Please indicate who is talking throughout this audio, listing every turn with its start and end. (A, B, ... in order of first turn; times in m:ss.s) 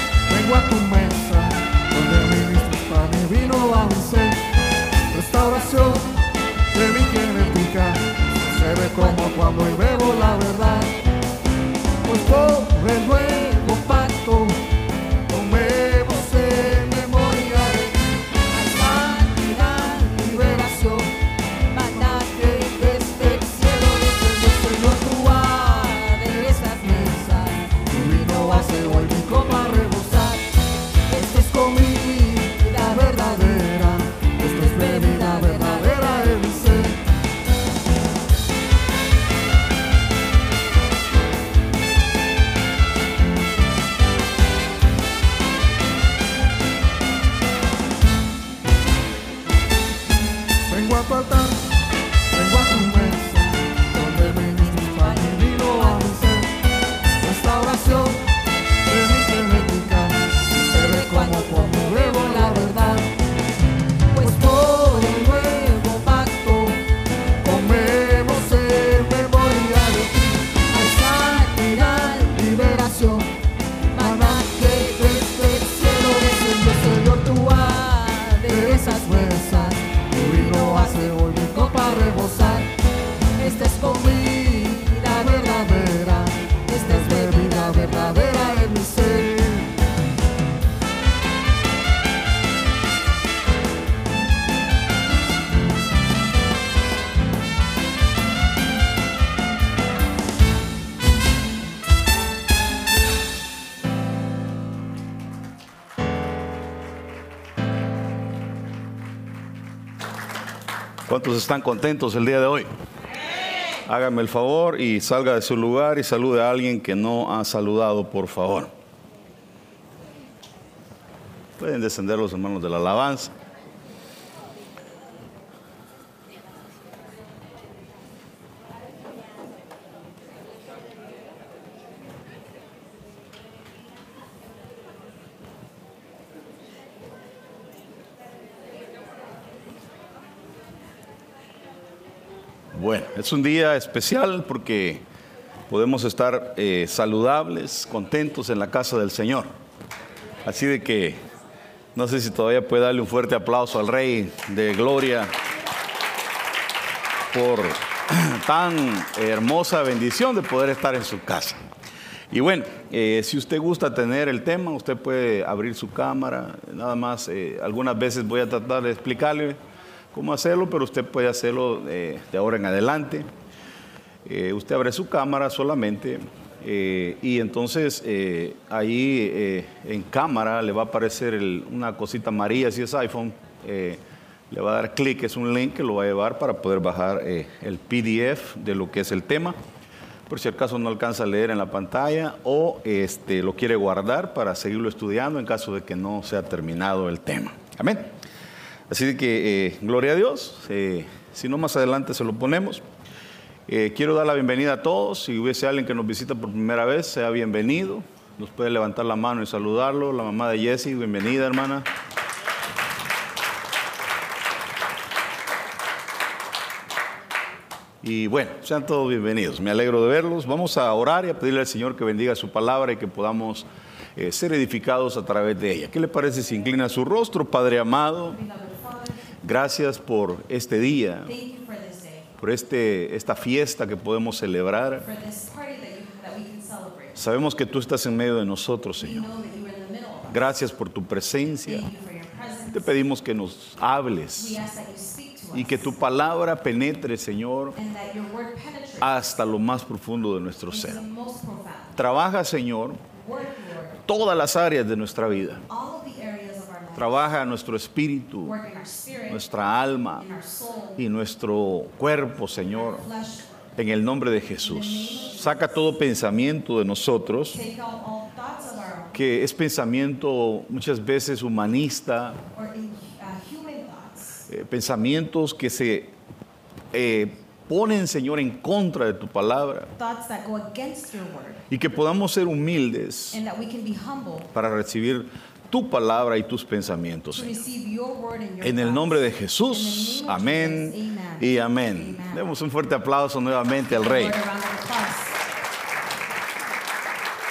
0:00.3-0:04.4 A
0:05.1-0:06.1 A
0:06.7-0:11.0 A
0:12.0-0:14.6 A
0:15.3-0:17.9 A
0:18.5-0:20.8 B
0:18.7-0:21.1 A
0:21.7-0:24.2 B
0:21.8-0:30.4 A
0:25.4-0:29.4 B
0:31.1-0:37.0 A
0:32.8-0:33.3 B
0:34.6-0:36.3 B
0:50.7-0:56.6 A
0:57.2-0:58.3 A
0:58.8-1:03.1 A
1:00.6-1:02.8 B
1:04.1-1:06.8 A
1:04.2-1:06.0 B
1:07.4-1:13.3 A
1:10.7-1:12.4 B
1:13.9-1:16.4 B
1:13.9-1:17.9 A
1:17.5-1:19.7 B
1:18.4-1:22.7 A
1:20.5-1:21.2 B
1:23.4-1:29.7 A
1:23.4-1:25.5 B
1:26.7-1:28.4 B
1:51.1-1:52.7 C
1:53.8-1:58.7 C
2:01.6-2:03.3 C
2:22.7-2:25.0 C
2:25.7-2:29.5 C
2:30.4-2:31.2 C
2:31.9-2:35.3 C
2:37.3-2:41.6 C
2:42.3-2:49.6 C
2:50.1-2:53.3 C
2:54.2-3:09.6 C
3:10.3-3:18.1 C
3:18.9-3:22.8 C
3:23.7-3:31.8 C
3:38.0-3:48.4 C
3:48.3-3:49.2 B
3:49.4-3:51.3 C
3:51.2-3:52.3 B
3:52.4-3:55.0 C
3:55.0-3:57.2 B
3:57.2-3:59.3 C
3:59.0-4:00.4 B
4:00.3-4:01.8 C
4:01.6-4:02.9 B
4:02.7-4:04.6 C
4:04.4-4:05.9 B
4:05.5-4:07.7 C
4:07.7-4:09.1 B
4:09.0-4:11.0 C
4:10.7-4:11.9 B
4:12.0-4:13.0 C
4:13.1-4:14.0 B
4:14.0-4:15.6 C
4:15.7-4:17.2 B
4:17.0-4:18.6 C
4:18.4-4:19.4 B
4:19.3-4:20.2 C
4:20.2-4:21.0 B
4:21.0-4:23.0 C
4:22.9-4:23.4 B
4:23.8-4:27.6 C
4:24.6-4:25.8 B
4:27.5-4:29.2 B
4:29.1-4:32.4 C
4:32.5-4:34.5 B
4:34.5-4:36.1 C
4:36.9-4:39.9 C
4:39.9-4:41.6 B
4:41.7-4:43.4 C
4:43.3-4:44.5 B
4:44.5-4:47.6 C
4:47.3-4:52.4 B
4:48.6-4:54.4 C
4:53.9-4:55.4 B